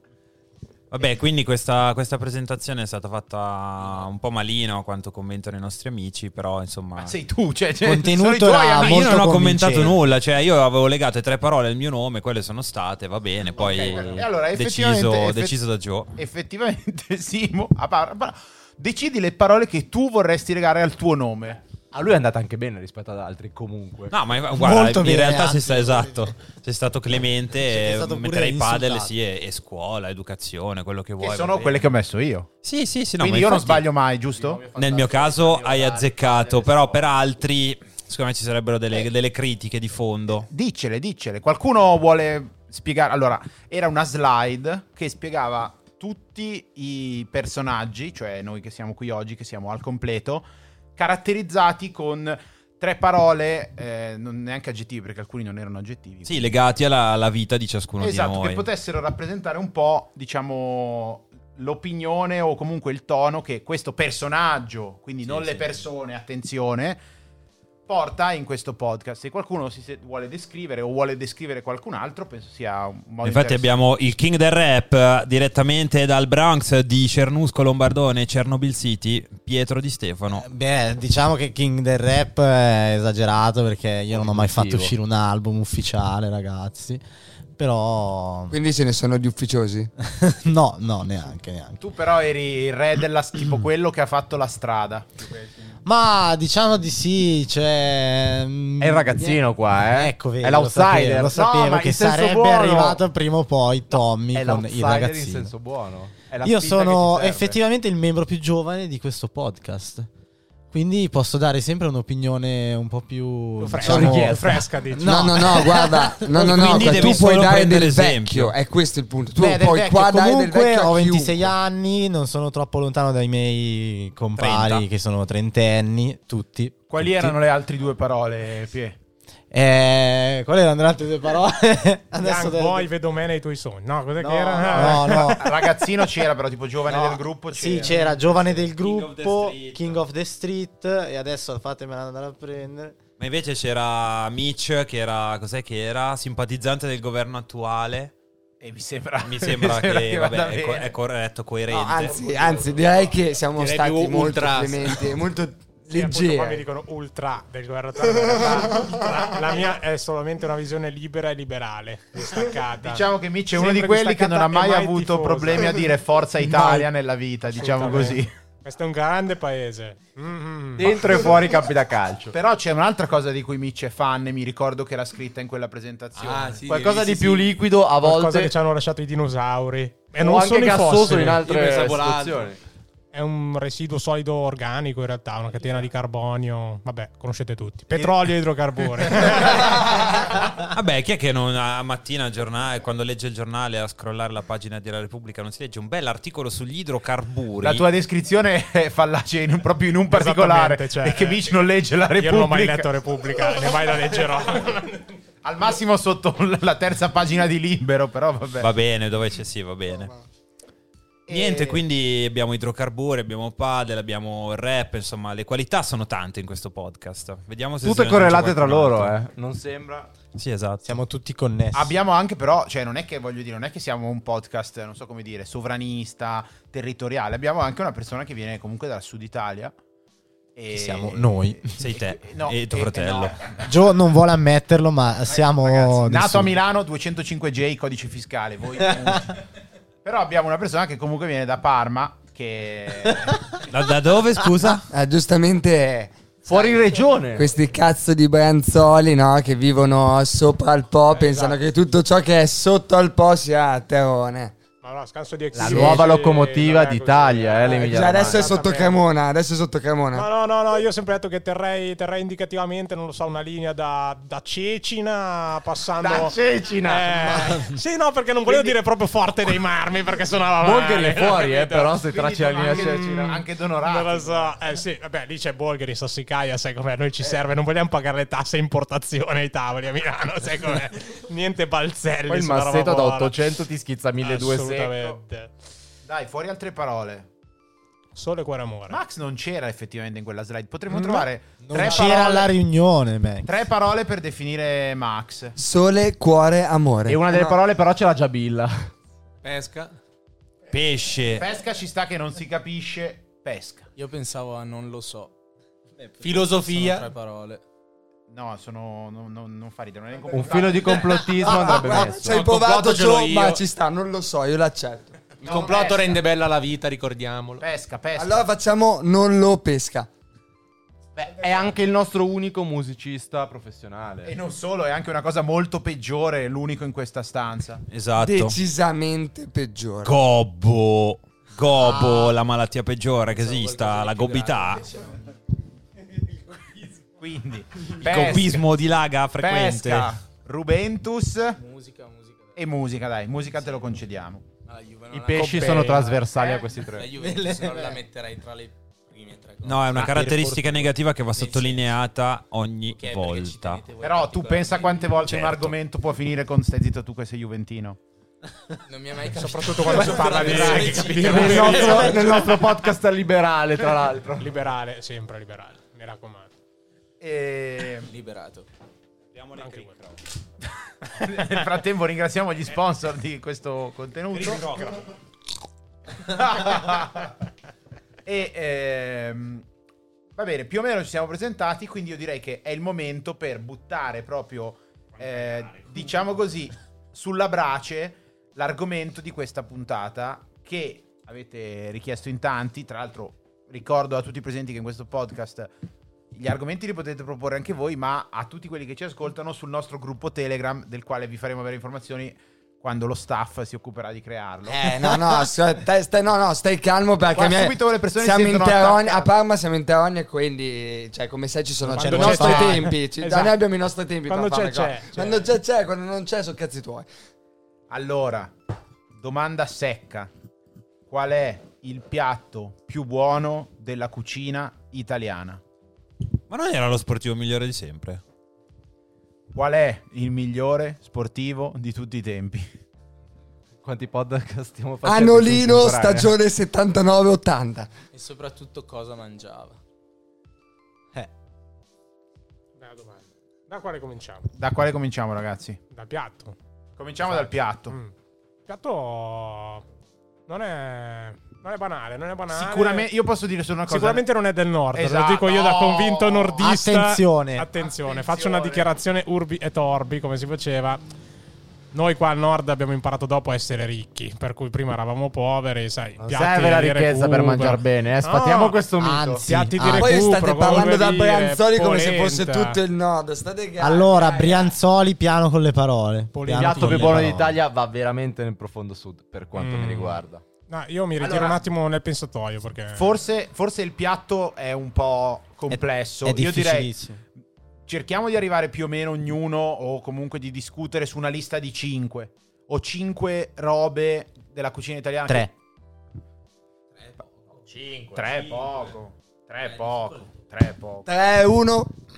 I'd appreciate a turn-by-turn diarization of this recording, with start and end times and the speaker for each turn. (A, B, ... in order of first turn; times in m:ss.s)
0:00.9-0:07.1 A
0:07.0-0:10.0 B
0:07.8-0:10.0 C
0:08.8-0:16.1 A
0:13.5-0:15.6 B
0:16.2-0:21.6 B
0:21.9-0:24.1 D
0:24.1-0:31.9 A
0:24.5-0:26.3 C
0:27.6-0:29.1 C
0:31.2-0:32.5 B
0:32.6-0:33.8 A
0:33.2-0:34.6 B
0:34.3-0:37.0 D
0:34.8-0:40.5 A
0:40.5-0:56.4 B
0:56.2-0:58.6 A
0:58.0-1:07.0 B
1:05.3-1:05.6 E
1:07.8-1:13.7 B
1:13.2-1:20.5 A
1:20.3-1:27.0 C
1:24.1-1:24.9 D
1:27.5-1:28.5 C
1:28.5-1:29.9 F
1:30.0-1:31.8 C
1:31.8-1:35.2 B
1:35.8-1:45.5 C
1:38.8-1:41.4 D
1:41.3-1:43.0 B
1:44.2-1:47.5 D
1:46.4-1:50.1 C
1:50.7-1:56.1 C
1:53.6-1:55.6 G
1:53.8-1:54.7 D
1:55.0-2:01.5 F
1:56.4-1:58.5 A
1:56.7-1:57.1 C
1:59.6-2:07.4 C
2:04.4-2:04.8 A
2:06.9-2:09.0 B
2:09.5-2:12.9 C
2:12.2-2:15.4 G
2:14.2-2:15.4 C
2:14.8-2:18.2 B
2:16.9-2:23.0 C
2:17.6-2:20.0 A
2:23.2-2:28.1 A
2:28.6-2:30.9 B
2:29.2-2:32.2 A
2:31.7-2:36.6 F
2:32.2-2:32.6 B
2:33.5-2:35.1 H
2:35.9-2:43.0 G
2:38.1-2:39.0 F
2:42.8-2:48.3 B
2:43.5-2:45.8 G
2:46.5-2:46.8 C
2:47.6-2:50.9 G
2:50.8-2:52.3 D
2:50.8-2:51.3 B
2:52.3-2:56.6 B
2:56.2-2:57.3 H
2:56.2-2:57.4 E
2:56.7-2:58.5 D
2:58.0-3:01.4 G
3:00.1-3:02.6 D
3:01.3-3:02.5 H
3:03.1-3:09.8 G
3:09.3-3:17.8 A
3:17.6-3:22.9 B
3:20.1-3:21.5 G
3:22.2-3:25.1 G
3:25.4-3:28.7 B
3:28.6-3:30.1 A
3:31.3-3:31.8 B
3:31.3-3:39.1 A
3:37.8-3:40.1 D
3:40.3-3:41.0 A
3:40.8-3:41.9 C
3:41.7-3:49.7 B
3:50.6-3:53.7 B
3:50.7-3:51.7 C
3:51.8-3:53.4 A
3:53.6-3:56.5 C
3:55.3-3:59.4 B
4:00.0-4:03.4 B
4:03.6-4:04.8 A
4:04.9-4:14.5 F
4:06.4-4:07.5 D
4:11.1-4:11.6 G
4:14.8-4:19.0 G
4:15.5-4:18.5 D
4:15.6-4:16.0 F
4:17.7-4:20.3 F
4:20.1-4:31.9 G
4:26.1-4:27.6 D
4:30.6-4:33.2 D
4:32.0-4:34.5 B
4:32.8-4:43.4 G
4:42.3-4:45.0 D
4:44.2-4:45.5 G
4:46.0-4:47.3 B
4:48.1-4:49.0 G
4:48.9-4:52.5 B
4:51.6-4:53.5 C
4:53.4-4:55.6 B
4:55.6-4:57.6 F
4:57.1-4:58.9 D
4:59.4-4:59.9 E
5:00.7-5:01.4 A
5:01.4-5:03.9 B
5:04.0-5:05.3 E
5:06.0-5:07.6 E
5:06.2-5:07.1 H
5:08.3-5:11.2 B
5:10.3-5:12.4 D
5:11.3-5:15.2 F
5:12.2-5:13.6 H
5:15.4-5:17.6 H
5:15.4-5:16.2 B
5:17.6-5:18.5 B
5:18.1-5:20.1 F
5:21.2-5:24.3 D
5:24.2-5:27.8 B
5:27.9-5:28.6 A
5:28.2-5:30.2 F
5:30.0-5:34.8 A
5:31.8-5:32.2 C
5:31.8-5:32.3 E
5:33.4-5:35.2 E
5:37.2-5:38.7 B
5:37.9-5:40.1 A
5:39.4-5:41.6 B
5:41.6-5:42.6 E
5:42.6-5:44.4 B
5:44.6-5:50.2 E
5:45.1-5:47.1 D
5:45.6-5:46.1 G
5:47.1-5:48.0 C
5:49.6-5:53.8 A
5:49.9-5:50.9 C
5:51.3-5:51.8 E
5:52.9-5:55.1 E
5:54.0-5:58.0 B
5:55.2-5:55.7 A
5:58.8-6:02.5 E
5:59.3-6:02.2 G
6:00.5-6:04.5 D
6:04.4-6:06.5 G
6:07.2-6:08.1 B
6:08.0-6:08.7 E
6:09.3-6:10.2 A
6:09.6-6:09.9 G
6:10.6-6:14.6 B
6:14.3-6:15.1 A
6:16.2-6:17.3 B
6:18.2-6:19.6 B
6:20.3-6:35.7 B
6:36.3-6:44.8 B
6:44.7-6:57.1 F
6:44.9-6:45.2 C
6:47.3-6:49.3 B
6:51.9-6:53.5 G
6:51.9-6:52.8 C
6:54.3-6:55.4 G
6:57.9-6:58.5 B
6:59.1-7:00.3 B
7:01.1-7:05.6 B
7:06.5-7:08.2 A
7:09.5-7:12.7 B
7:13.8-7:16.3 D
7:15.0-7:17.9 F
7:18.1-7:19.8 E
7:22.8-7:24.5 G
7:24.6-7:25.8 B
7:25.9-7:26.6 G
7:27.0-7:27.9 B
7:27.2-7:28.1 G
7:28.6-7:29.8 G
7:30.5-7:33.1 G
7:32.5-7:34.2 B
7:33.9-7:41.0 G
7:34.9-7:36.6 B
7:36.6-7:37.7 C
7:37.7-7:38.9 B
7:41.9-7:48.8 G
7:46.2-7:49.4 D
7:49.0-7:50.2 C
7:49.5-7:52.8 G
7:49.8-7:54.8 F
7:53.8-7:57.6 C
7:56.3-7:57.3 G
7:56.5-8:00.4 D
7:59.5-8:03.1 G
8:01.2-8:01.6 B
8:02.9-8:07.0 B
8:05.7-8:07.2 C
8:07.9-8:15.5 B
8:17.0-8:18.6 E
8:18.1-8:21.0 B
8:21.0-8:21.9 F